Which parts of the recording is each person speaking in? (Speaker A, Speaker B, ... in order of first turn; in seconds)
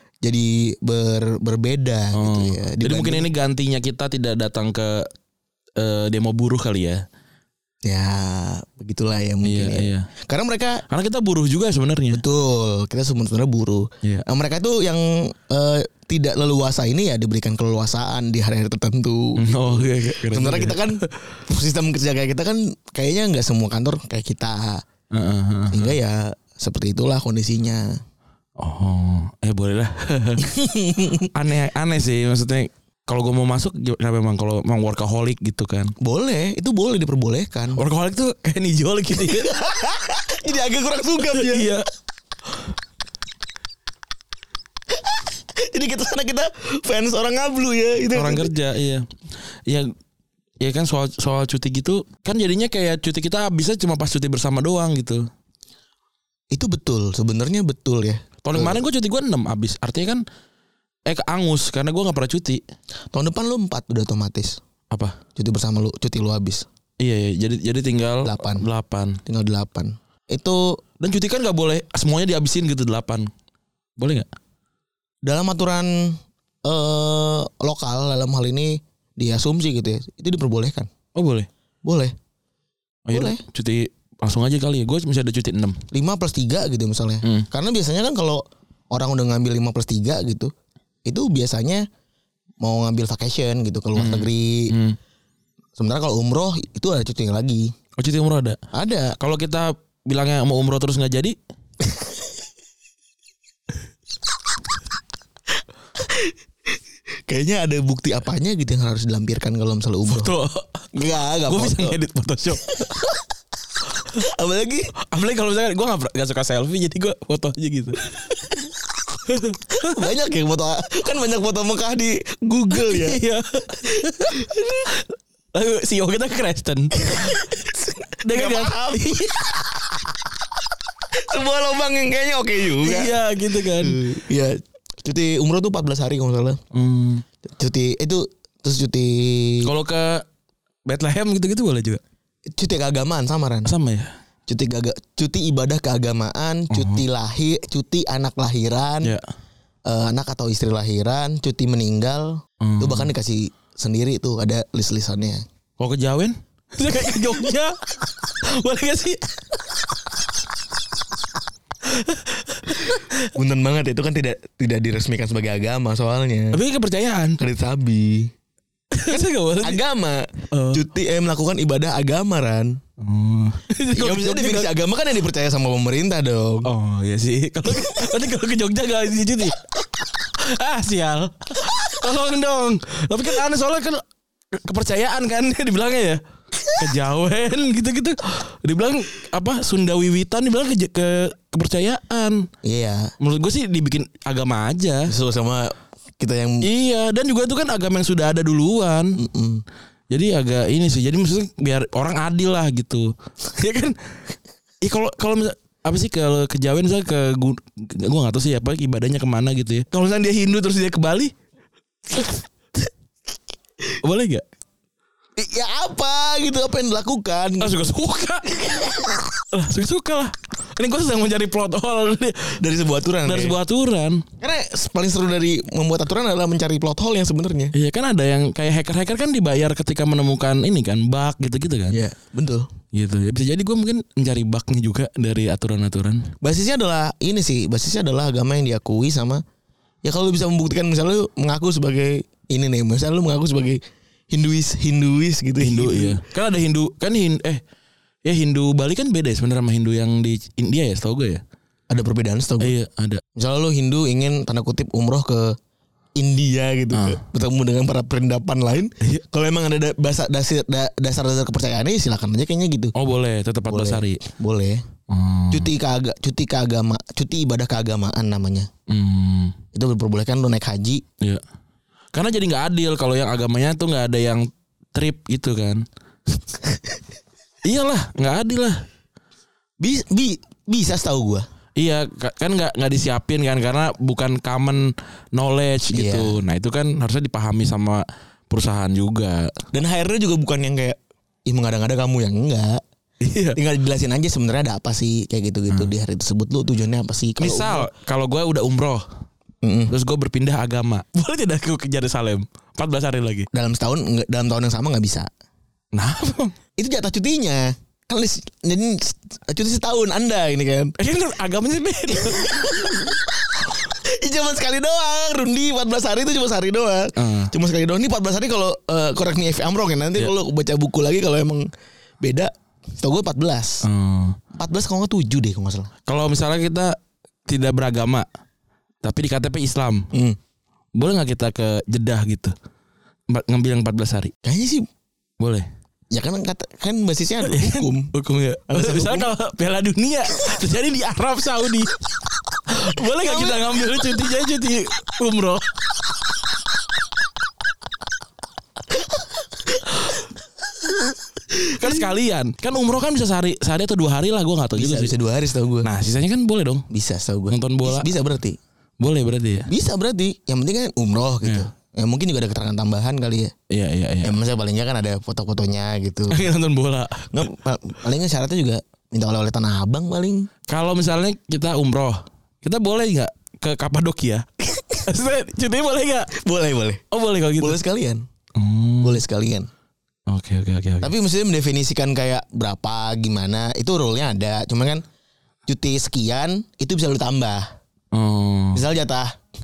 Speaker A: 0.2-3.3, 7.8-10.8, 12.1-24.9, 25.7-28.0, 30.4-31.3, 36.0-37.8, 39.3-41.7, 45.0-48.5, 56.5-58.8, 63.1-64.6, 65.3-66.7, 68.2-68.6, 69.2-70.8, 75.2-80.9, 81.8-82.1, 83.1-83.4, 85.9-90.5, 91.0-91.8, 92.6-94.7, 95.8-97.7, 98.7-99.2, 106.0-106.3, 107.3-110.3, 110.9-112.0, 112.8-113.0, 114.1-114.9, 119.7-123.2, 123.9-124.9, 127.0-129.2, 131.1-133.1, 133.8-136.6, 137.4-139.7, 142.5-143.7, 144.5-149.1, 149.8-155.4, 163.2-166.6, 167.4-168.3, 169.1-172.8, 173.9-176.7, 192.6-193.1, 195.1-196.6, 199.2-199.6, 215.4-217.9, 222.6-223.6, 224.4-227.7, 231.9-232.7, 236.4-239.4, 240.0-246.2, 251.9-252.7, 253.3-255.5, 256.2-262.9, 263.7-264.8, 265.5-268.7, 269.7-271.0, 279.8-281.4, 285.9-286.4, 289.7-292.8, 293.5-297.9, 299.6-299.9, 303.5-305.3, 306.8-310.9, 312.4-313.1, 313.7-321.6, 322.2-323.8, 324.6-325.9, 330.1-330.4, 334.4-334.9, 336.1-338.1, 338.7-339.3, 343.2-343.7, 351.5-352.1, 354.7-355.9, 356.9-358.6, 359.7-363.5, 364.2-366.4, 367.3-370.5, 376.3-377.0, 377.6-378.2, 379.0-379.7, 381.0-385.0, 385.7-387.7, 388.7-389.3
Speaker B: 2.1-5.1, 5.8-7.0, 9.4-10.1, 10.9-12.2, 19.4-21.1, 25.1-25.9, 28.6-30.4, 31.3-35.9, 37.8-39.5, 41.3-41.9, 48.1-49.0, 49.6-49.9, 50.6-55.2, 58.4-60.2, 61.1-62.6, 64.9-65.2, 67.0-69.2, 71.0-73.3, 74.0-74.3, 81.1-81.5, 83.1-85.8, 94.0-95.0, 98.0-98.6, 99.2-101.3, 110.1-110.8, 111.5-113.0, 115.1-118.4, 119.2-120.0, 122.7-124.4, 125.5-127.4, 128.2-129.9, 132.8-134.0, 136.7-137.2, 139.6-140.2, 140.8-142.0, 143.7-144.1, 146.7-147.0, 152.6-153.1, 155.8-160.0, 161.8-163.2, 166.5-167.4, 168.9-169.8, 170.5-170.8, 173.0-174.7, 176.7-179.6, 180.2-186.2, 186.7-192.5, 193.2-195.1, 196.6-199.2, 200.1-203.9, 204.8-211.3, 214.0-214.4, 217.6-218.5, 219.5-222.6, 223.2-224.2, 227.7-232.0, 232.9-236.3, 245.6-247.6, 248.2-251.4, 252.6-253.2, 256.9-257.2, 262.9-264.2, 265.1-265.7, 268.9-269.6, 272.1-275.8, 277.6-278.8, 281.8-289.5, 293.2-293.6, 297.4-299.0, 299.9-303.5, 305.9-306.5, 311.0-313.1, 317.1-317.5, 323.8-324.4, 326.1-326.9, 327.5-328.2, 329.0-330.1, 330.9-332.5, 333.3-334.3, 335.4-335.6, 337.4-345.8, 351.8-355.1, 355.8-356.9, 357.5-358.1, 359.0-359.7, 363.7-364.4, 366.3-367.3, 370.7-376.3, 377.1-377.8, 378.6-379.2, 380.3-381.1, 388.1-388.8